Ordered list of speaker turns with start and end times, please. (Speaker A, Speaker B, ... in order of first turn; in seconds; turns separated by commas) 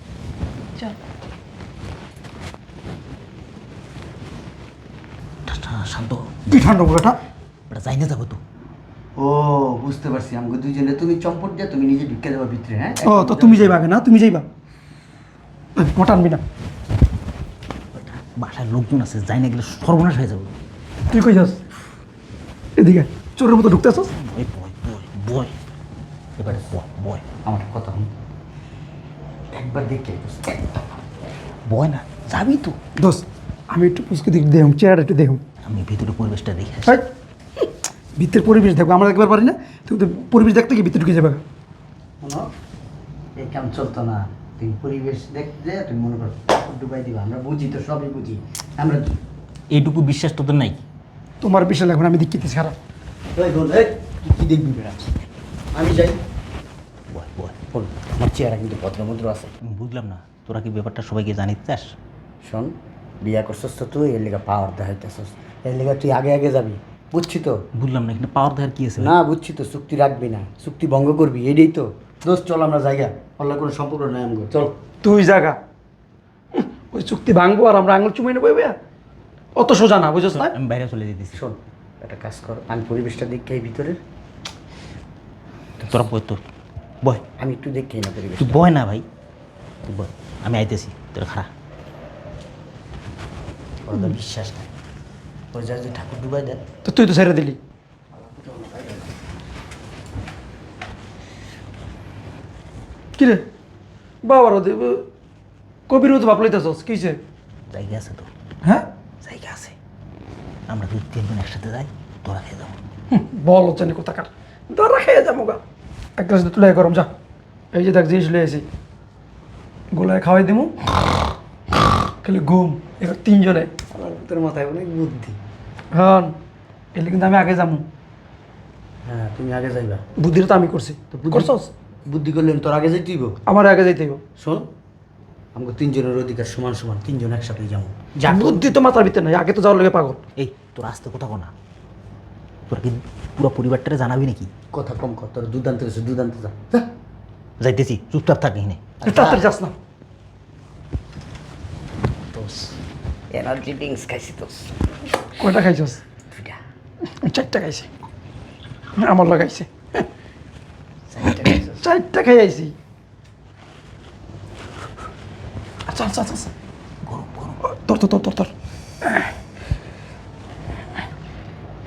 Speaker A: 5.5-6.7, Speaker B: 6.5-7.2, Speaker A: 7.7-8.4, Speaker C: 9.2-13.8, Speaker B: 13.0-14.4, Speaker B: 15.8-16.4, Speaker A: 17.9-20.5, Speaker B: 21.1-21.6, Speaker B: 22.8-24.1, Speaker A: 23.8-25.5, Speaker A: 26.4-27.2, Speaker C: 27.4-28.1, Speaker C: 29.5-30.8, Speaker A: 31.7-32.8, Speaker B: 33.0-35.4, Speaker A: 35.6-37.0, Speaker B: 38.1-41.4, Speaker C: 42.2-42.5, Speaker C: 43.4-49.2, Speaker A: 49.7-50.8, Speaker B: 51.4-52.8, Speaker C: 53.4-55.1, Speaker C: 55.7-56.2, Speaker A: 57.1-57.5, Speaker C: 57.7-59.5, Speaker A: 59.6-61.9, Speaker C: 62.4-67.6, Speaker A: 67.7-69.1, Speaker C: 69.0-74.7, Speaker B: 75.0-75.6, Speaker B: 76.5-78.8, Speaker B: 79.5-80.5, Speaker A: 80.2-81.4, Speaker C: 81.3-84.0, Speaker A: 85.8-86.4, Speaker C: 87.4-88.6, Speaker A: 88.4-89.0, Speaker A: 89.8-91.5, Speaker C: 93.8-94.7, Speaker C: 95.5-96.6, Speaker B: 96.8-97.6, Speaker C: 98.4-99.0, Speaker B: 103.2-103.5, Speaker B: 104.2-105.0, Speaker B: 105.9-107.2, Speaker A: 107.7-108.3, Speaker A: 109.2-109.7, Speaker A: 110.7-112.8, Speaker B: 113.1-115.6, Speaker B: 116.2-117.1, Speaker B: 117.7-118.7, Speaker B: 119.9-120.7, Speaker B: 122.2-123.7, Speaker C: 123.9-125.4, Speaker B: 125.9-126.3, Speaker B: 126.9-127.9, Speaker C: 129.1-130.0, Speaker B: 130.2-131.7, Speaker C: 131.1-133.3, Speaker B: 133.4-134.2, Speaker C: 134.4-134.7, Speaker C: 135.5-138.8, Speaker B: 138.3-140.2, Speaker A: 140.4-141.5, Speaker A: 142.7-144.5, Speaker C: 144.7-146.9, Speaker A: 147.6-148.9, Speaker C: 149.0-149.5, Speaker B: 149.0-149.7, Speaker C: 152.3-152.7, Speaker C: 153.3-154.7, Speaker B: 155.4-156.0, Speaker C: 156.3-156.6, Speaker B: 157.2-157.9, Speaker B: 158.9-159.7, Speaker C: 161.1-161.8, Speaker B: 161.8-162.7, Speaker B: 165.9-166.5, Speaker A: 167.0-167.6, Speaker B: 167.7-168.5